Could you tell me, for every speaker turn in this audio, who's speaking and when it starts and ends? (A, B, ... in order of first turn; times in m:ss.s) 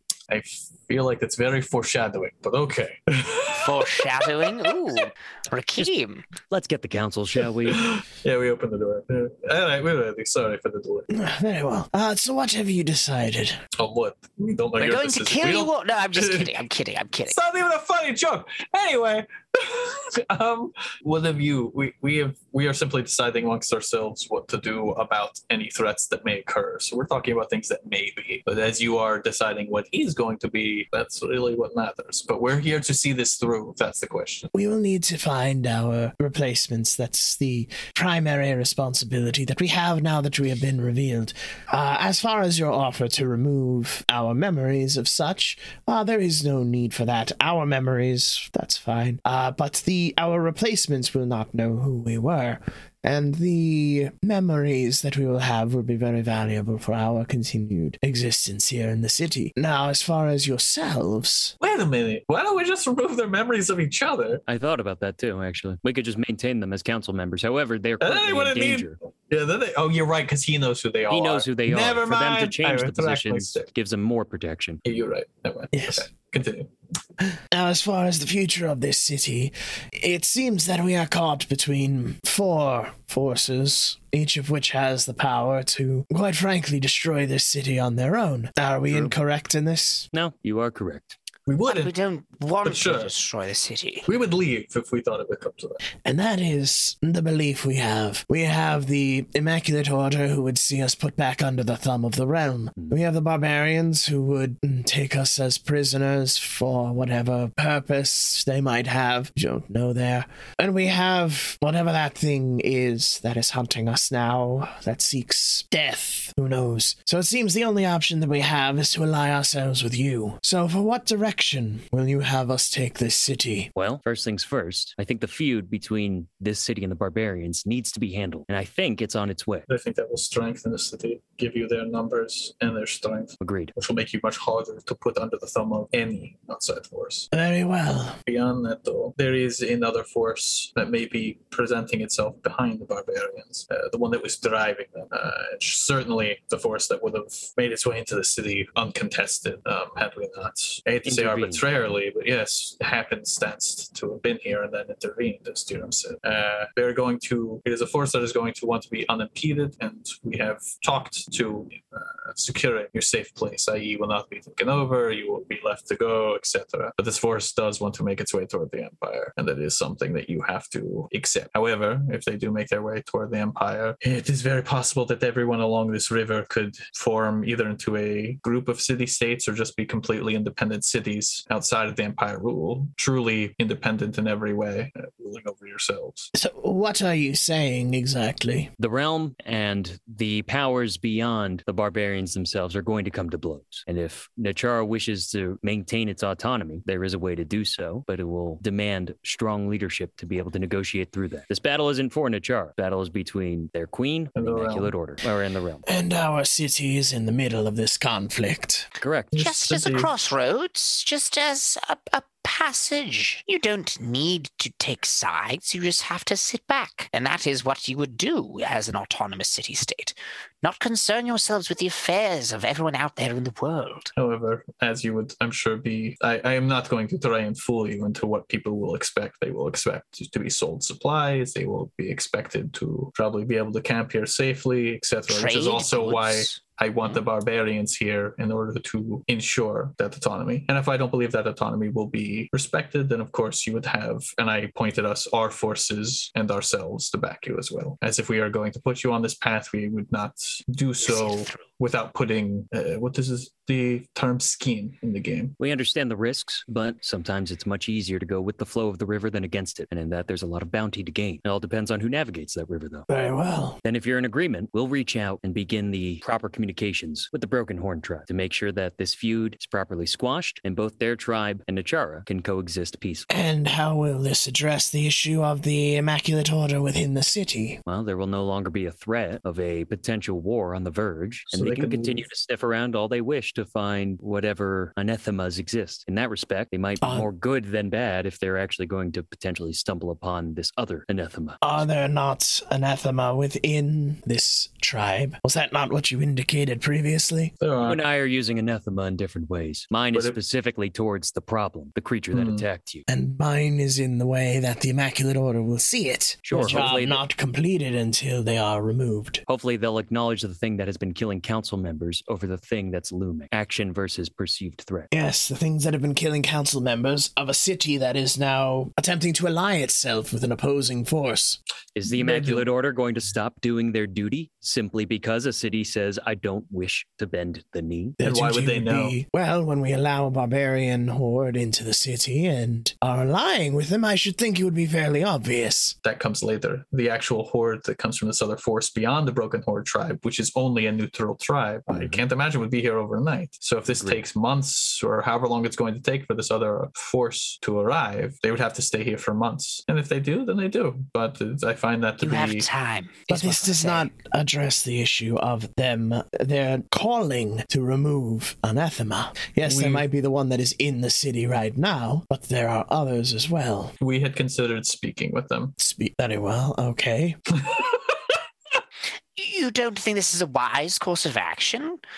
0:00.3-0:04.7 A
0:03.5-0:06.2 B
0:06.5-0:07.9 C
0:07.6-0:11.1 A
0:11.1-0:13.6 D
0:13.8-0:16.5 A
0:14.8-0:17.4 B
0:17.3-0:34.5 A
0:34.5-1:01.5 D
1:01.6-1:04.4 A
1:04.5-1:09.0 C
1:08.0-1:13.7 A
1:11.1-1:14.8 C
1:14.8-1:16.7 A
1:15.7-1:16.0 D
1:17.5-1:30.1 D
1:28.9-1:29.1 C
1:30.1-1:31.2 C
1:31.5-1:31.9 A
1:31.7-1:34.1 B
1:32.6-1:33.1 A
1:34.1-1:35.8 A
1:36.0-2:03.7 D
2:03.8-2:09.7 C
2:09.7-2:17.3 A
2:13.4-2:13.7 C
2:17.3-2:18.2 D
2:18.3-3:06.3 A
2:31.0-2:31.6 C
3:06.3-3:08.7 D
3:08.8-3:25.8 C
3:24.4-3:24.9 A
3:25.8-3:28.9 D
3:29.0-3:29.3 C
3:29.3-3:30.1 A
3:29.3-3:44.1 B
3:44.2-4:15.6 A
3:55.3-3:57.2 B
4:11.0-4:11.6 B
4:15.6-4:23.1 C
4:23.1-4:23.8 D
4:23.8-4:33.3 C
4:33.3-4:37.8 D
4:37.8-4:51.7 C
4:41.5-4:42.2 A
4:47.0-4:47.3 D
4:51.6-4:57.5 D
4:57.6-4:58.0 A
4:57.8-5:03.0 C
5:02.3-5:02.7 A
5:03.1-5:09.4 D
5:06.4-5:07.2 C
5:06.5-5:06.9 A
5:09.5-5:15.1 C
5:15.1-5:21.6 D
5:22.0-5:28.2 C
5:22.1-5:22.6 A
5:28.2-5:35.9 D
5:28.2-5:29.2 A
5:36.0-5:52.7 A
5:41.9-5:42.2 C
5:43.9-5:44.2 C
5:52.2-5:54.1 B
5:53.3-6:03.9 D
5:59.6-6:00.0 A
6:04.0-6:05.7 A
6:05.8-6:07.4 D
6:07.5-6:08.1 A
6:09.4-6:12.0 B